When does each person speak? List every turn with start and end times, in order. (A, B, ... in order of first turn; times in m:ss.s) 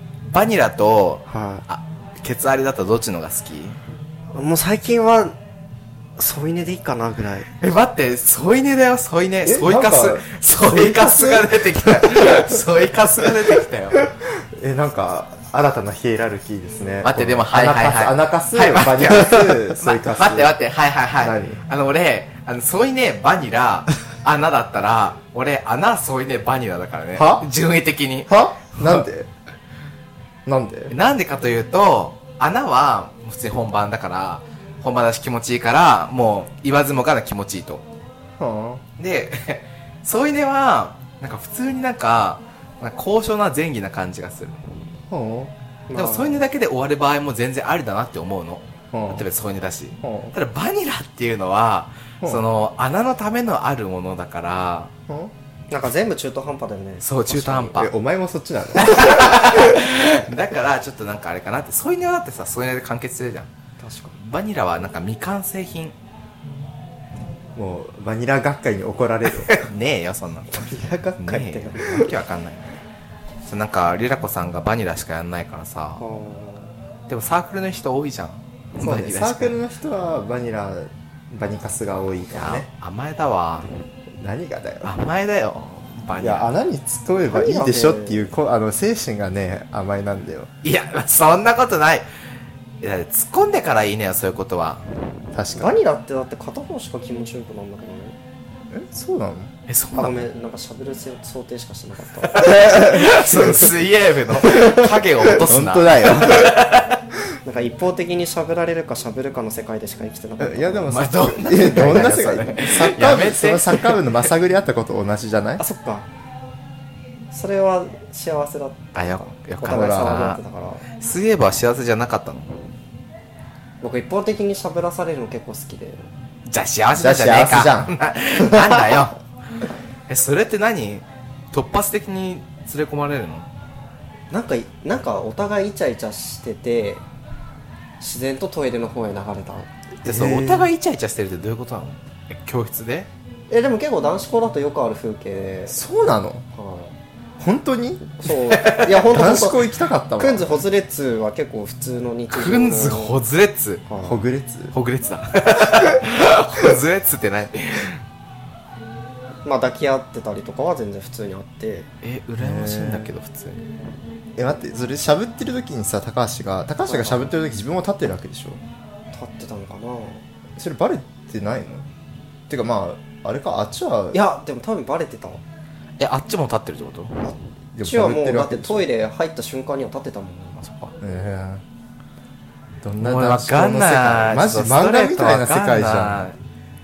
0:00.3-0:03.8 A
0:01.3-0:01.6 B
0:04.3-0:05.4 B
0:06.2-0:07.5 B
0:07.6-0:14.0 A
0:09.4-0:12.3 C
0:14.4-0:20.6 C
0:17.0-0:29.0 A
0:21.2-0:21.6 C
0:27.1-0:27.5 C
0:28.3-0:29.3 C
0:30.4-0:30.9 C
0:30.9-0:37.8 A
0:38.4-0:38.8 C
0:39.0-0:44.6 A
0:45.1-0:45.5 C
0:45.9-0:46.4 B
0:45.9-0:54.9 A
0:48.9-0:49.3 C
0:50.0-0:50.4 C
0:55.1-0:55.3 C
0:55.7-0:57.8 B
0:57.0-0:57.9 A
0:57.8-0:59.7 C
0:58.7-1:03.5 A
1:03.8-1:04.2 B
1:04.2-1:05.9 A
1:07.5-1:09.6 C
1:09.4-1:12.8 A
1:10.5-1:12.1 B
1:13.4-1:16.0 A
1:16.0-1:16.7 B
1:17.1-1:19.6 A
1:18.8-1:22.7 C
1:22.3-1:23.7 A
1:24.2-1:24.9 C
1:24.8-1:26.5 A
1:26.2-1:30.5 C
1:27.2-1:28.3 B
1:30.6-1:32.1 A
1:32.8-1:34.8 A
1:35.3-1:35.8 C
1:35.5-1:38.2 B
1:38.7-1:39.5 C
1:39.7-1:40.2 A
1:39.9-1:42.9 B
1:42.2-1:47.0 A
1:42.6-1:43.7 C
1:44.5-1:44.8 B
1:45.4-1:46.5 C
1:47.4-1:51.0 B
1:50.4-1:55.6 C
1:50.8-1:54.2 A
1:51.6-1:52.1 B
1:55.6-1:56.1 B
1:57.3-2:00.8 B
1:58.9-2:00.4 A
1:59.6-2:00.4 C
2:01.0-2:02.7 A
2:03.8-2:06.1 B
2:06.5-2:09.2 A
2:07.0-2:08.9 C
2:10.1-2:13.5 A
2:14.3-2:17.0 B
2:18.0-2:19.7 B
2:20.0-2:23.1 A
2:20.0-2:20.7 C
2:23.5-2:25.8 B
2:25.7-2:26.4 C
2:26.5-2:27.0 B
2:27.4-2:28.2 C
2:28.2-2:33.2 B
2:28.5-2:29.0 A
2:29.0-2:30.6 C
2:32.3-2:33.8 A
2:33.9-2:34.2 B
2:34.0-2:34.7 C
2:34.7-2:38.0 A
2:39.4-2:41.9 B
2:42.0-2:43.6 A
2:42.4-2:43.1 C
2:44.4-2:48.6 C
2:46.8-2:47.3 B
2:49.1-2:50.2 B
2:50.6-2:51.9 C
2:52.5-2:54.2 C
2:54.1-2:55.4 B
2:56.0-2:57.3 A
2:57.7-2:58.9 C
2:57.8-3:00.6 B
3:00.6-3:00.9 A
3:01.0-3:01.6 C
3:02.8-3:06.3 C
3:03.0-3:06.4 A